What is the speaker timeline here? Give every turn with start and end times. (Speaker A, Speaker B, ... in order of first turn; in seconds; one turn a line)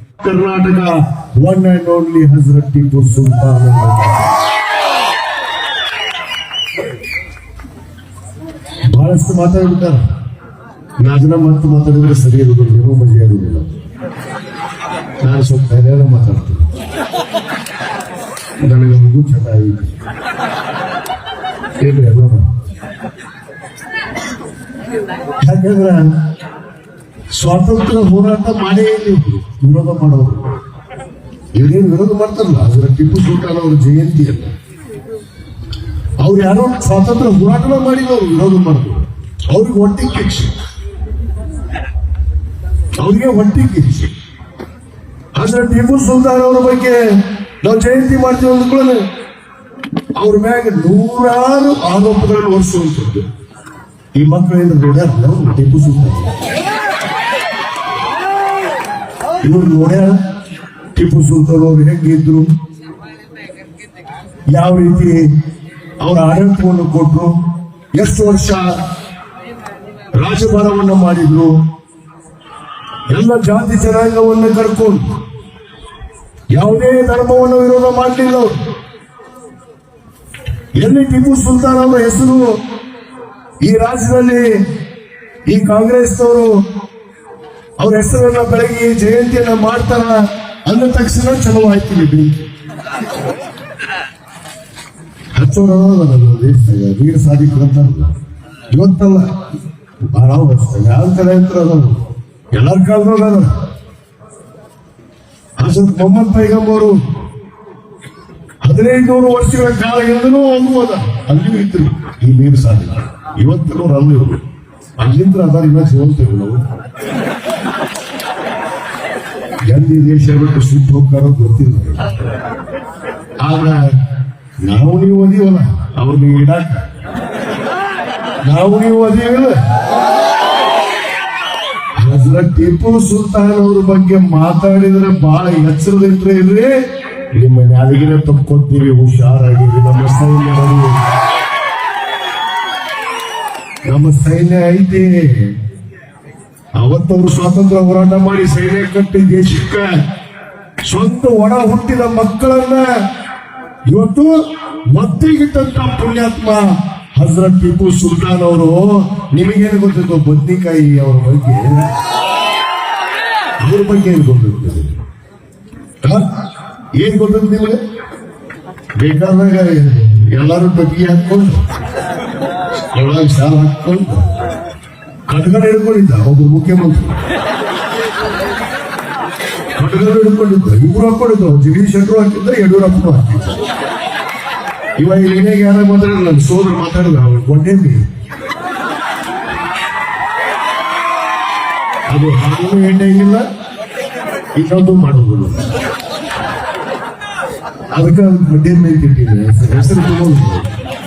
Speaker A: 0.2-4.3
Speaker A: 8.9-10.0
Speaker A: 11.0-13.8
Speaker A: 15.2-16.6
Speaker A: 18.6-19.9
Speaker A: 21.8-22.5
Speaker A: 25.4-26.1
Speaker A: 27.3-30.5
Speaker A: 31.5-34.5
Speaker A: 36.2-40.5
Speaker A: 43.0-44.1
Speaker A: 45.4-47.0
Speaker A: 47.6-49.0
Speaker A: 50.2-53.2
Speaker A: 54.1-56.3
Speaker A: 59.4-60.2
Speaker A: 61.0-62.5
Speaker A: 64.5-65.2
Speaker A: 66.0-67.3
Speaker A: 67.9-68.7
Speaker A: 70.1-71.5
Speaker A: 73.1-75.0
Speaker A: 76.5-78.6
Speaker A: 80.8-82.6
Speaker A: 83.6-84.5
Speaker A: 85.5-86.5
Speaker A: 87.8-92.4
Speaker A: 95.3-98.1
Speaker A: 98.7-99.3
Speaker A: 100.0-103.5
Speaker A: 105.6-107.0
Speaker A: 108.6-114.4
Speaker A: 115.0-116.6
Speaker A: 119.7-122.2
Speaker A: 123.4-123.9
Speaker A: 124.6-126.9
Speaker A: 128.4-129.6
Speaker A: 132.0-136.7
Speaker A: 137.3-141.0
Speaker A: 143.8-145.5
Speaker A: 146.8-150.0
Speaker A: 150.8-152.9
Speaker A: 153.9-154.4
Speaker A: 154.9-161.9
Speaker A: 163.6-164.9
Speaker A: 167.0-167.8
Speaker A: 169.0-171.6
Speaker A: 172.9-174.2
Speaker A: 175.3-177.2
Speaker A: 179.8-183.6
Speaker A: 185.0-188.0
Speaker A: 192.1-193.4
Speaker A: 194.6-195.7
Speaker A: 197.9-200.7